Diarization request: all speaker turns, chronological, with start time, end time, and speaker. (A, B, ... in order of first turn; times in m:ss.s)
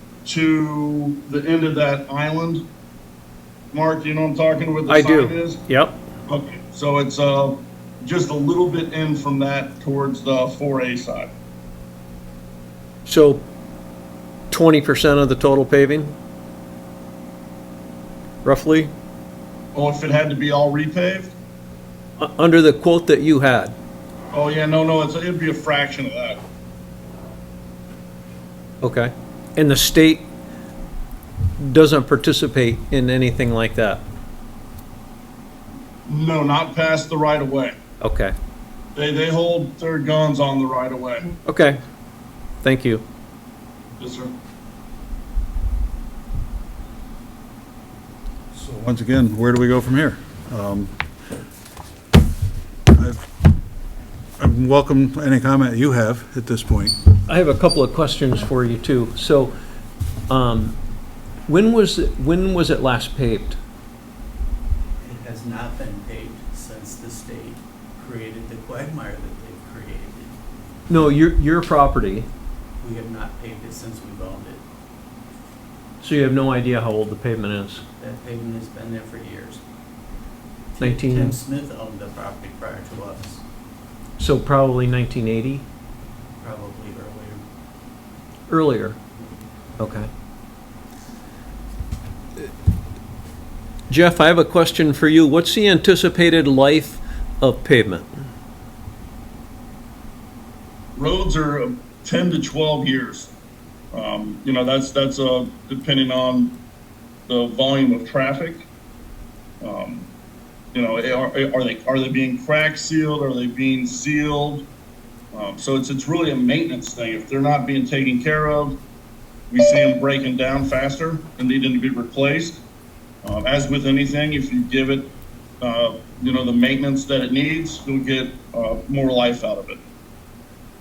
0:00.2-0:02.6 A
0:03.7-0:05.6 A
0:04.9-0:05.9 B
0:06.3-0:11.3 A
0:13.0-0:13.4 B
0:14.5-0:16.1 B
0:18.4-0:18.9 B
0:19.7-0:21.3 A
0:22.2-0:23.8 B
0:24.3-0:26.4 A
0:28.8-0:30.3 B
0:31.6-0:34.0 B
0:36.0-0:37.8 A
0:38.0-0:38.3 B
0:38.9-0:41.3 A
0:41.4-0:41.8 B
0:42.6-0:43.0 B
0:44.0-0:44.3 A
0:48.5-0:51.0 C
0:52.9-0:53.2 C
0:54.4-0:57.0 C
0:57.2-0:59.5 B
1:00.3-1:00.8 B
1:01.5-1:03.6 B
1:05.0-1:10.4 D
1:10.9-1:12.3 B
1:12.8-1:14.6 D
1:16.0-1:17.8 B
1:18.0-1:19.6 D
1:20.7-1:23.4 D
1:20.8-1:21.4 B
1:24.2-1:25.6 B
1:26.4-1:27.4 D
1:28.5-1:29.0 B
1:29.8-1:30.1 B
1:33.9-1:38.2 B
1:41.0-1:43.3 A
1:43.9-1:46.6 A
1:47.3-1:48.7 A
1:49.6-1:50.1 A
1:50.7-1:54.6 A
1:55.3-1:58.8 A
1:59.5-2:02.6 A
2:03.2-2:09.8 A